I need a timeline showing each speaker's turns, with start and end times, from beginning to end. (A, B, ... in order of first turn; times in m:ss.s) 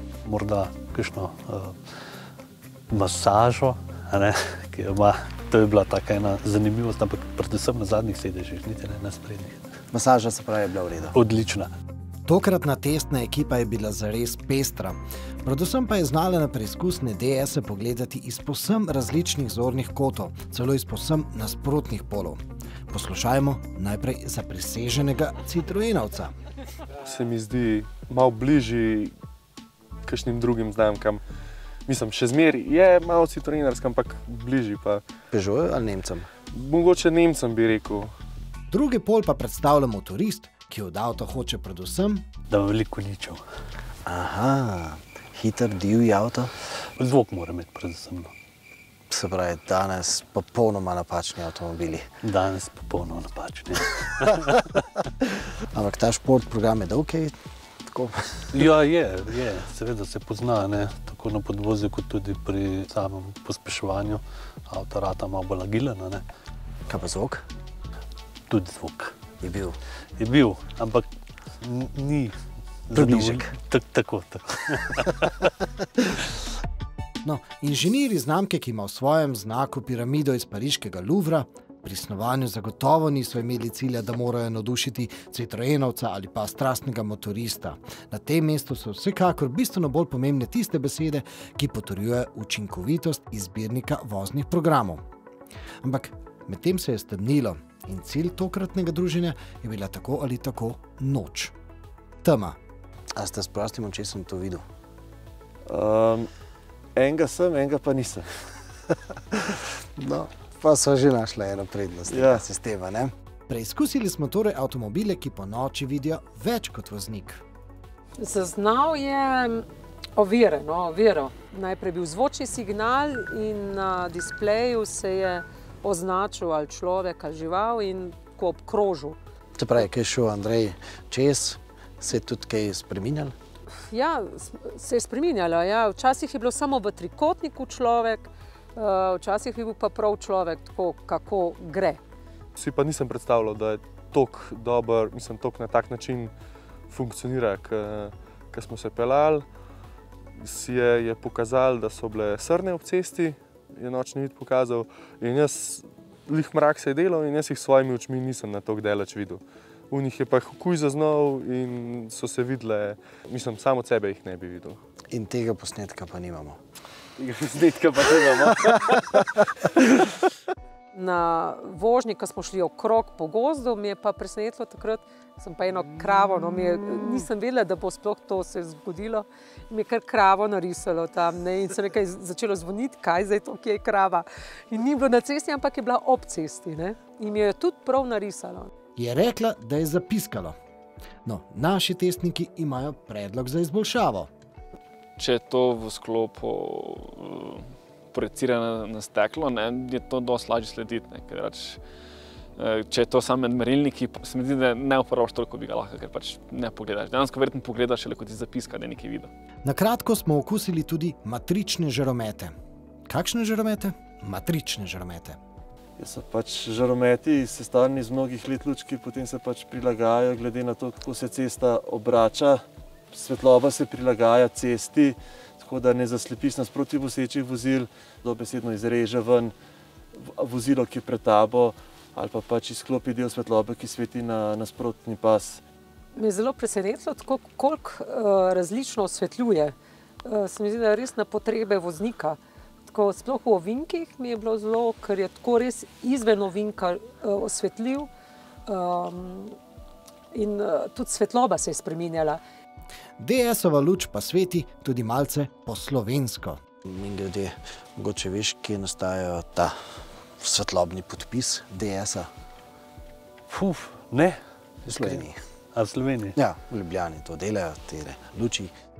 0:00.2-0:01.8 A
0:02.9-0:09.6 A
0:09.9-0:11.1 B
0:11.1-0:11.7 A
0:12.3-0:26.3 C
0:27.0-0:29.1 D
0:30.0-0:31.2 D
0:31.9-0:35.0 D
0:35.3-0:36.2 B
0:36.5-0:38.1 D
0:38.7-0:42.3 C
0:42.5-0:43.4 A
0:44.1-0:46.5 B
0:46.8-0:48.3 A
0:49.1-0:52.0 B
0:52.2-0:55.0 A
0:55.7-0:57.3 B
0:58.5-1:06.2 A
1:06.9-1:07.4 B
1:08.5-1:09.3 A
1:09.4-1:09.7 B
1:10.2-1:11.1 A
1:11.6-1:12.4 A
1:12.9-1:15.5 A
1:12.9-1:13.4 B
1:17.2-1:35.0 C
1:35.8-1:41.5 C
1:42.2-1:42.6 C
1:43.2-1:44.6 B
1:45.7-1:46.3 E
1:47.0-1:48.3 E
1:50.0-1:53.1 B
1:52.1-1:52.4 E
1:53.5-1:57.4 C
1:58.2-2:09.2 F
2:09.6-2:13.3 B
2:13.9-2:22.0 F
2:22.6-2:26.3 D
2:26.9-2:29.4 D
2:30.4-2:44.8 D
2:45.1-2:46.6 B
2:47.2-2:48.9 D
2:50.9-3:08.7 F
3:09.0-3:10.5 C
3:11.2-3:14.3 C
3:15.2-3:21.8 G
3:22.6-3:29.3 G
3:29.6-3:32.5 C
3:33.1-3:35.4 C
3:36.0-3:49.5 E
3:50.2-3:55.6 E
3:56.2-4:08.1 F
4:08.7-4:09.6 F
4:10.3-4:12.4 F
4:13.2-4:16.6 C
4:16.8-4:19.7 B
4:20.4-4:22.3 B
4:23.5-4:26.4 A
4:24.9-4:25.3 B
4:26.4-4:28.7 B